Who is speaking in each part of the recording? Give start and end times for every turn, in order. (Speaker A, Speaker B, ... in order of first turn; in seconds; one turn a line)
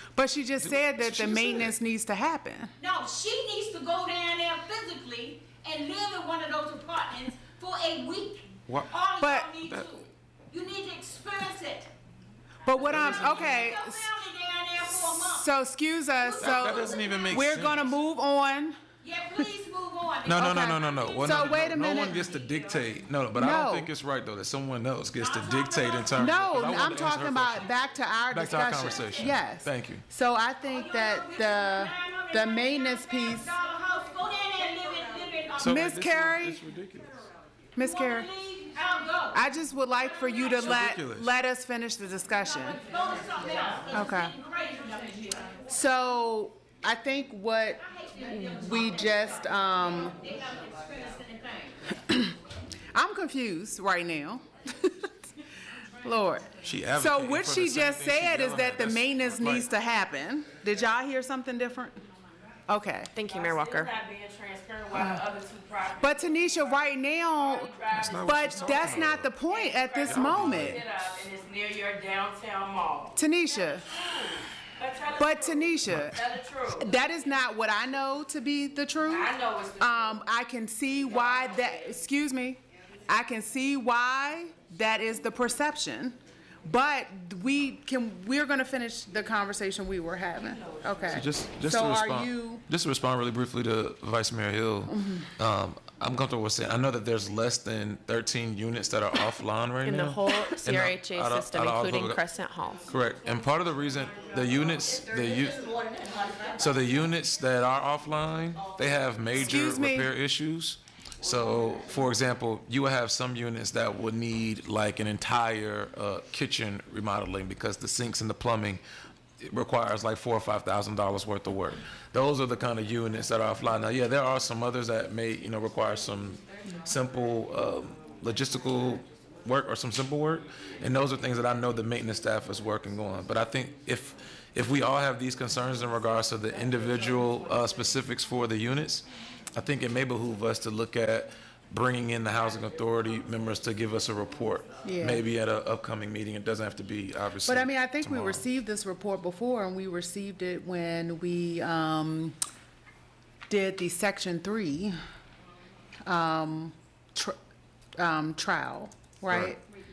Speaker A: 0.1-2.7
Speaker B: 0.6-1.8
Speaker C: 2.8-11.9
Speaker B: 8.7-8.9
Speaker A: 9.2-9.5
Speaker B: 9.6-9.9
Speaker A: 12.6-14.1
Speaker B: 12.8-13.7
Speaker C: 13.0-15.5
Speaker A: 14.9-18.8
Speaker C: 16.2-17.4
Speaker B: 16.4-17.9
Speaker C: 19.0-22.8
Speaker B: 20.2-27.7
Speaker A: 20.3-22.2
Speaker A: 23.3-23.9
Speaker C: 25.2-26.2
Speaker A: 26.1-33.6
Speaker B: 28.3-30.0
Speaker C: 30.7-35.7
Speaker B: 35.6-37.2
Speaker A: 35.6-36.6
Speaker A: 37.8-38.3
Speaker C: 37.8-39.4
Speaker A: 39.3-42.8
Speaker C: 40.0-40.6
Speaker B: 40.5-41.3
Speaker C: 42.4-45.5
Speaker A: 43.9-44.3
Speaker A: 45.7-47.8
Speaker C: 47.8-51.7
Speaker A: 48.3-50.2
Speaker A: 52.0-52.3
Speaker A: 52.9-55.1
Speaker A: 56.0-62.0
Speaker B: 56.6-59.7
Speaker A: 62.7-63.1
Speaker D: 63.1-63.9
Speaker E: 63.3-77.0
Speaker A: 64.9-65.2
Speaker A: 66.0-70.8
Speaker B: 67.9-69.3
Speaker B: 70.0-70.8
Speaker A: 73.1-73.9
Speaker A: 75.1-76.2
Speaker A: 76.8-92.6
Speaker E: 79.0-80.0
Speaker E: 90.5-91.1
Speaker B: 91.1-102.2
Speaker D: 99.8-102.9
Speaker B: 102.9-105.7
Speaker B: 106.5-118.8
Speaker A: 109.3-110.1
Speaker B: 119.4-148.4
Speaker A: 144.8-145.2
Speaker A: 147.4-152.3
Speaker A: 153.5-155.0
Speaker A: 156.1-157.3
Speaker A: 158.0-159.6